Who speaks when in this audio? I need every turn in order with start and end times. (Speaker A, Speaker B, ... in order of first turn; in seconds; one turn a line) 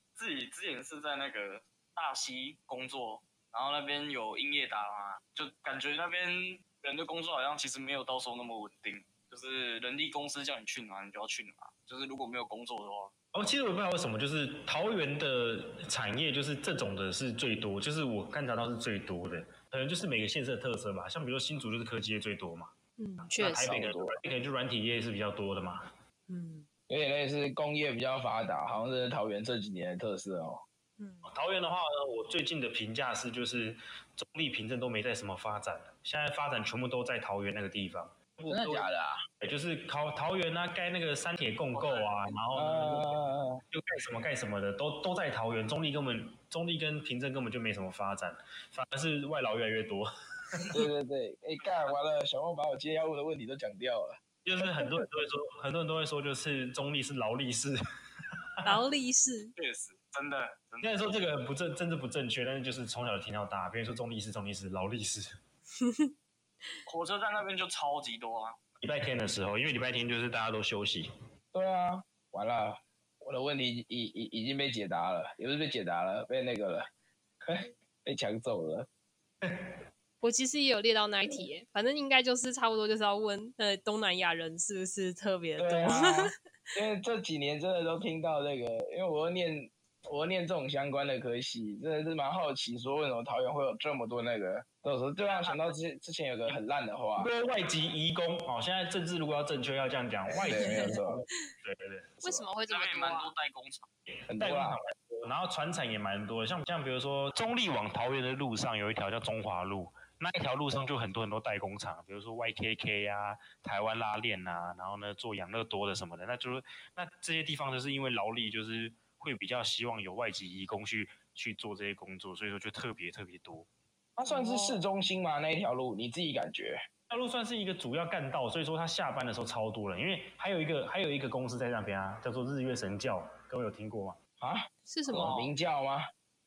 Speaker A: 0.2-13.1
Speaker B: 13.3-22.7
Speaker C: 23.0-23.8
Speaker B: 23.4-25.9
Speaker D: 23.6-24.2
Speaker C: 26.3-26.7
Speaker D: 26.9-30.6
Speaker C: 31.0-31.3
Speaker B: 31.3-38.9
Speaker D: 38.5-39.2
Speaker B: 39.4-43.2
Speaker A: 41.7-42.3
Speaker D: 42.5-43.6
Speaker B: 43.7-50.8
Speaker D: 50.7-55.0
Speaker B: 54.5-57.7
Speaker C: 58.6-59.5
Speaker A: 59.6-61.2
Speaker B: 60.8-65.3
Speaker C: 65.8-66.1
Speaker A: 66.9-68.6
Speaker B: 68.8-71.1
Speaker D: 71.5-76.9
Speaker D: 77.5-78.9
Speaker B: 79.4-79.7
Speaker C: 80.2-86.3
Speaker D: 85.6-97.3
Speaker A: 95.2-95.7
Speaker B: 97.2-102.5
Speaker D: 100.4-101.2
Speaker C: 100.5-101.0
Speaker C: 102.2-103.3
Speaker A: 102.7-103.9
Speaker D: 104.3-104.8
Speaker B: 104.3-123.7
Speaker D: 124.2-126.8
Speaker C: 124.2-124.8
Speaker B: 127.1-134.2
Speaker D: 134.4-136.1
Speaker C: 134.9-135.4
Speaker A: 135.2-135.5